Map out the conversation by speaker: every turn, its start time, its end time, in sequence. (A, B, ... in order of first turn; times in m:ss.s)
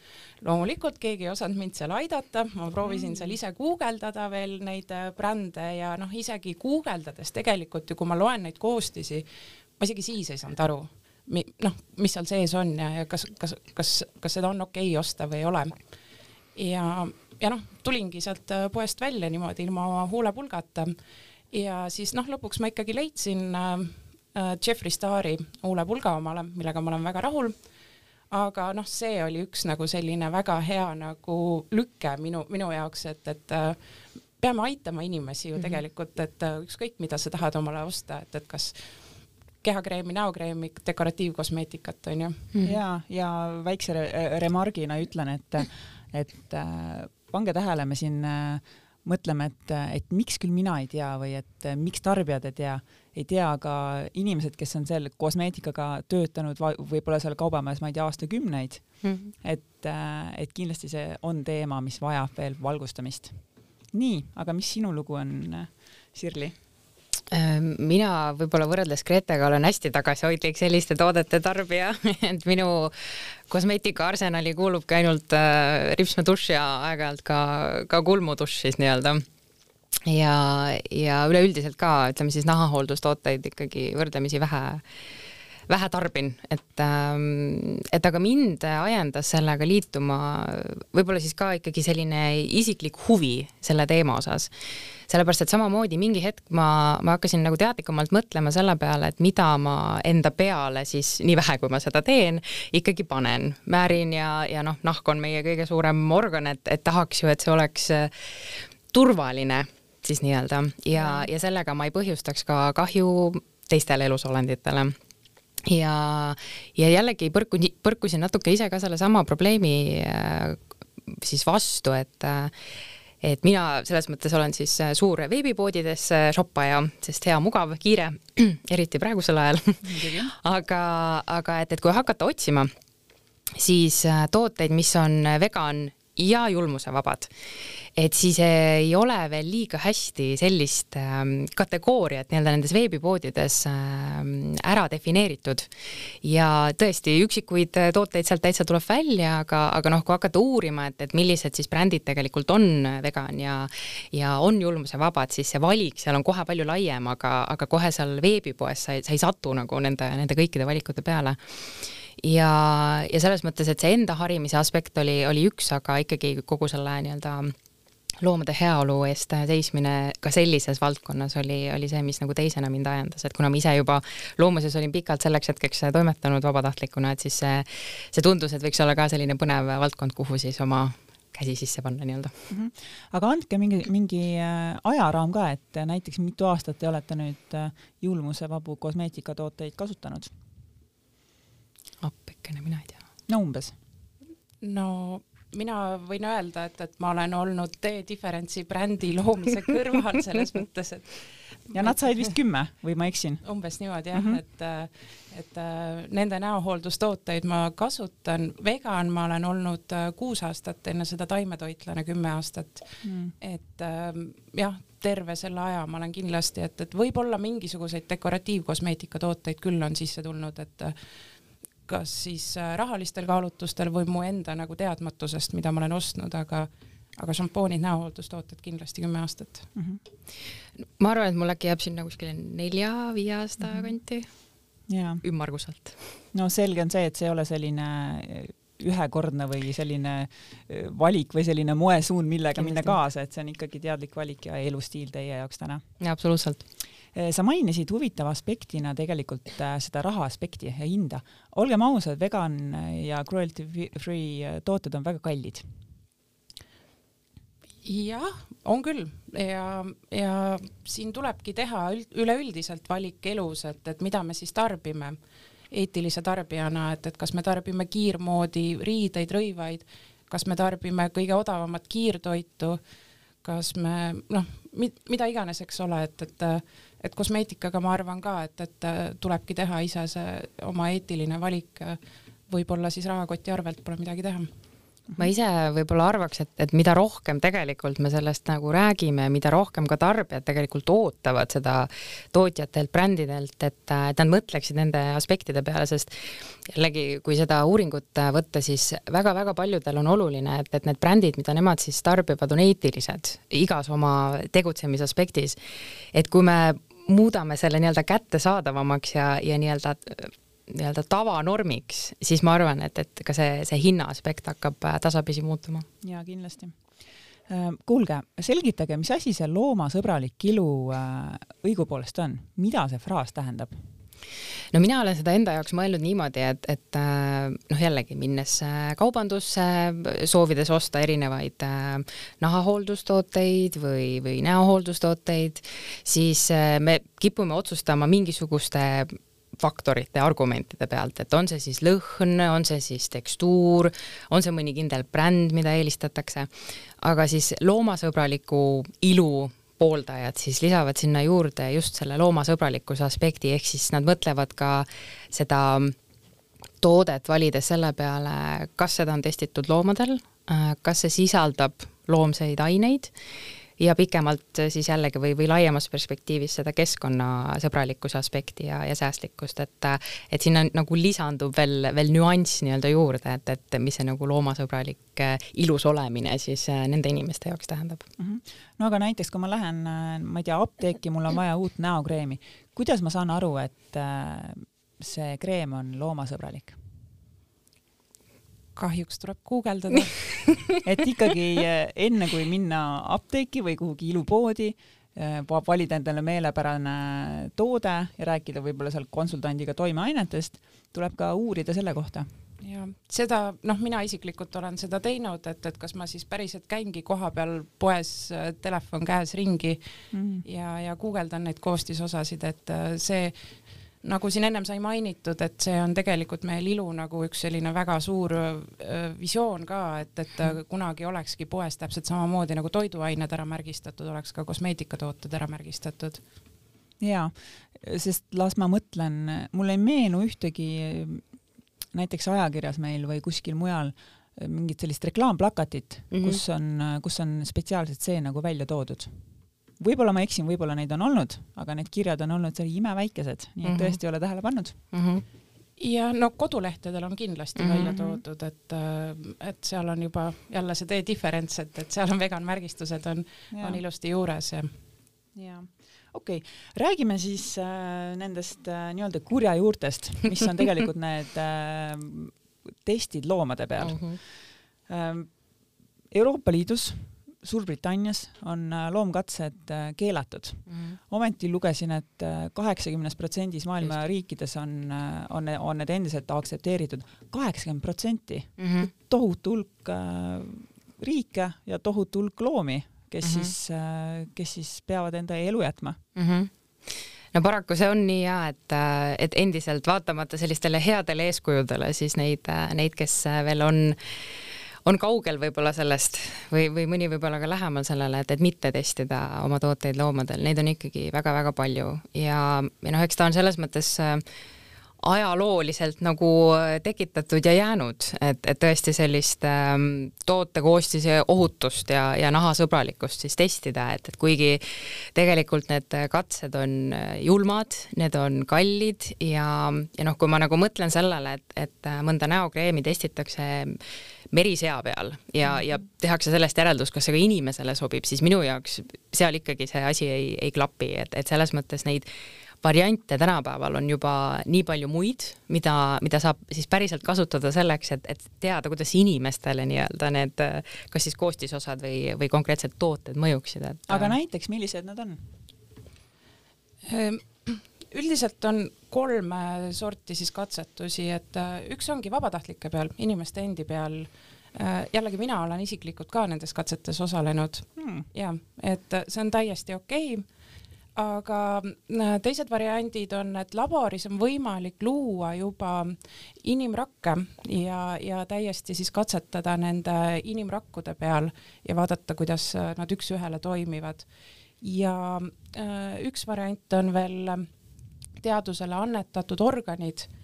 0:00.4-0:09.2 A
0:09.8-0:15.7 A
0:16.5-0:20.9 A
0:21.5-0:27.6 A
0:28.3-0:33.8 A
0:34.4-0:38.8 A
0:39.6-0:42.4 A
0:42.6-1:06.5 B
0:59.0-0:59.3 C
1:07.3-1:19.2 C
1:20.0-1:24.8 C
1:25.7-1:34.5 C
1:35.1-1:54.9 C
1:51.0-1:51.3 B
1:55.6-2:02.5 C
2:03.2-2:12.7 C
2:09.8-2:10.3 B
2:13.6-2:17.3 C
2:18.0-2:25.7 C
2:26.2-2:47.5 C
2:48.2-3:02.3 C
3:02.5-3:10.3 B
3:12.0-3:13.0 C
3:13.3-3:13.7 B
3:14.6-3:22.0 A
3:21.7-3:23.4 B
3:23.4-3:40.9 A
3:24.1-3:24.4 B
3:33.0-3:33.3 B
3:41.8-3:49.7 A
3:49.7-3:50.0 B
3:51.0-3:54.3 C
3:53.6-3:53.9 B
3:54.9-3:55.2 B
3:55.2-3:56.0 C
3:56.3-4:05.8 B
4:02.6-4:02.9 C
4:06.0-4:06.6 C
4:07.1-4:15.6 B
4:17.8-4:25.2 A
4:25.7-4:32.8 A
4:33.4-4:42.0 A
4:42.5-4:44.5 A
4:45.2-5:05.6 C
5:06.1-5:15.9 C
5:16.0-5:16.8 B
5:17.5-5:23.8 B
5:24.7-5:55.9 C
5:56.8-6:03.1 C
6:03.8-6:18.0 C
6:18.2-6:26.8 B
6:28.8-6:30.4 A
6:30.8-6:42.3 B
6:42.6-6:49.8 A
6:50.1-6:50.4 B
6:50.4-6:53.3 A
6:54.0-7:06.2 A
7:07.0-7:11.2 B
7:11.9-7:19.2 B
7:16.1-7:16.4 C
7:19.8-7:24.8 B
7:23.6-7:24.0 C
7:24.9-7:25.2 C
7:25.8-7:34.7 A
7:27.6-7:28.2 C
7:33.5-7:33.8 B
7:35.3-7:45.3 B
7:43.8-7:44.2 C
7:46.1-8:06.0 B
7:50.7-7:51.0 C
7:58.6-7:58.9 C
8:03.2-8:03.5 C
8:06.2-8:06.5 C
8:07.3-8:24.2 C
8:25.0-8:52.1 C
8:52.6-9:04.1 C
9:03.9-9:05.2 B
9:06.8-9:20.2 A
9:17.8-9:18.1 B
9:21.0-9:34.1 A
9:34.6-9:37.5 A
9:38.2-9:40.1 A